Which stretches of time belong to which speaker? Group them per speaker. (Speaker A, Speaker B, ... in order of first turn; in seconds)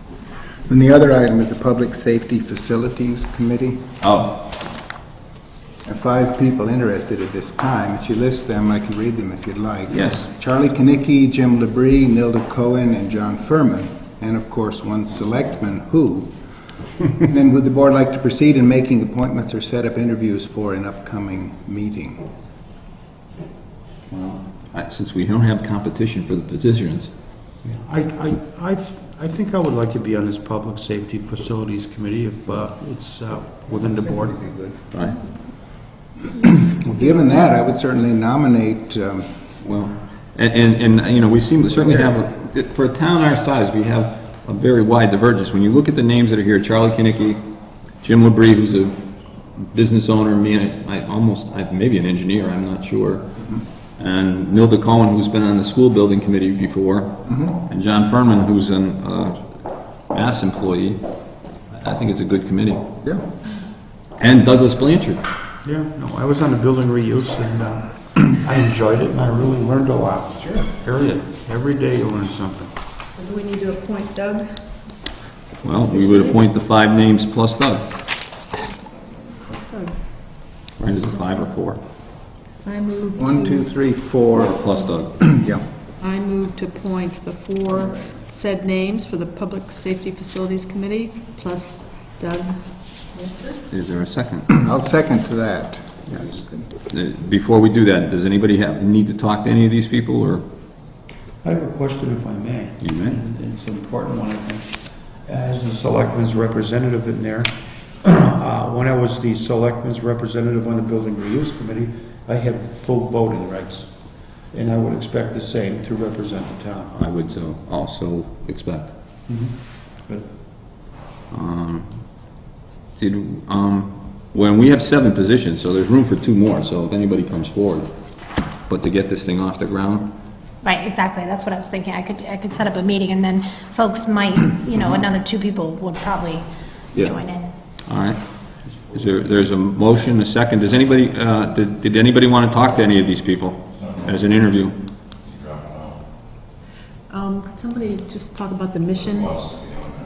Speaker A: 0.7-3.9, 5.8-16.3, 17.0-22.3, 33.7-34.8, 36.3-39.5, 57.3-57.5, 83.2-84.6, 85.1-85.7, 94.5-96.7
Speaker B: 4.0-4.4, 9.9-10.2, 24.1-27.1, 34.9-35.2, 39.6-47.4, 48.0-53.4, 54.0-59.4, 60.1-61.0, 61.7-62.9, 64.2-65.2, 75.6-78.0, 80.8-81.8, 84.4-85.2, 93.7-94.5, 96.9-100.5, 102.8-103.2, 116.9-119.0, 121.3-122.0, 123.0-127.9, 128.7-130.1, 137.9-138.3, 138.9-144.8
Speaker C: 27.6-34.4, 65.6-72.7, 101.4-113.9, 114.5-116.9, 119.3-119.5
Speaker D: 73.1-74.6, 75.8-76.4, 79.5-80.0, 82.6-83.7, 86.0-93.6, 147.1-149.6
Speaker E: 130.6-137.5